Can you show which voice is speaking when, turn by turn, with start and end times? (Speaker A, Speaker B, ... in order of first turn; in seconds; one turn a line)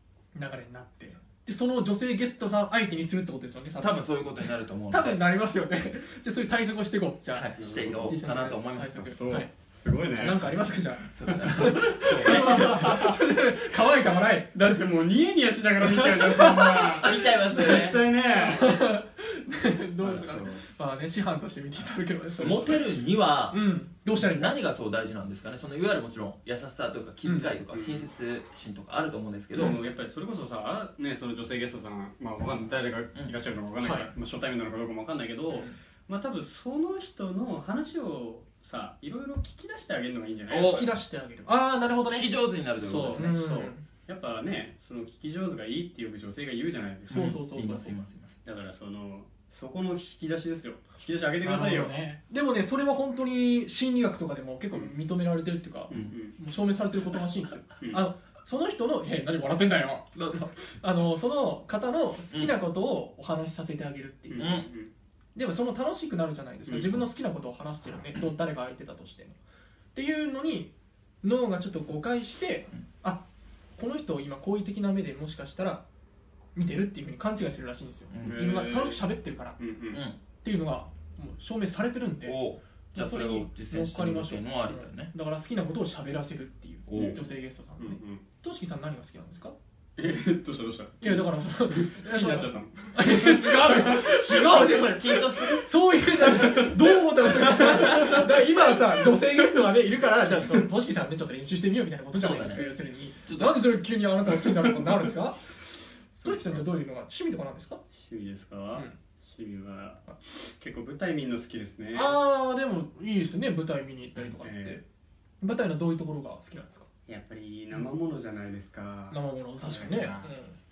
Speaker A: 0.3-4.0
Speaker B: 3.7-5.2
Speaker A: 4.9-9.5
Speaker B: 7.3-9.2
Speaker C: 7.6-8.2
Speaker C: 9.2-10.5
Speaker A: 10.1-14.6
Speaker B: 11.1-12.9
Speaker C: 11.3-13.2
Speaker C: 14.5-18.8
Speaker A: 16.2-17.1
Speaker B: 17.0-18.1
Speaker A: 18.3-22.9
Speaker C: 20.0-20.6
Speaker B: 22.4-23.6
Speaker A: 23.5-24.5
Speaker B: 24.2-29.8
Speaker A: 27.2-27.6
Speaker C: 27.7-28.1
Speaker C: 29.6-40.9
Speaker A: 33.8-34.1
Speaker B: 40.5-40.9
Speaker A: 40.6-42.3
Speaker B: 42.1-43.4
Speaker C: 42.8-47.3
Speaker A: 42.8-43.8
Speaker B: 47.1-48.4
Speaker A: 47.1-47.9
Speaker C: 48.5-51.9
Speaker A: 51.4-60.1
Speaker C: 55.9-56.4
Speaker C: 57.8-58.1
Speaker B: 60.1-60.6
Speaker A: 60.8-64.6
Speaker C: 64.3-64.9
Speaker B: 64.4-64.7
Speaker A: 65.3-69.4
Speaker C: 66.7-67.0
Speaker A: 69.9-70.7
Speaker A: 71.2-75.8
Speaker A: 76.5-79.6
Speaker B: 78.1-78.4
Speaker C: 78.2-80.0
Speaker B: 79.9-80.2
Speaker A: 80.4-82.4
Speaker B: 82.2-85.1
Speaker A: 82.9-89.6
Speaker B: 86.9-87.2
Speaker C: 86.9-87.2
Speaker C: 87.8-88.2
Speaker C: 90.0-94.6
Speaker A: 91.0-105.4
Speaker B: 94.0-95.7
Speaker C: 96.2-98.2
Speaker B: 97.3-98.2
Speaker B: 102.2-102.7
Speaker B: 103.2-103.6
Speaker C: 106.2-106.7
Speaker A: 106.2-107.8
Speaker C: 108.0-112.2
Speaker A: 111.9-114.8
Speaker C: 114.2-114.8
Speaker A: 115.4-116.9
Speaker C: 117.1-120.3
Speaker A: 119.1-120.6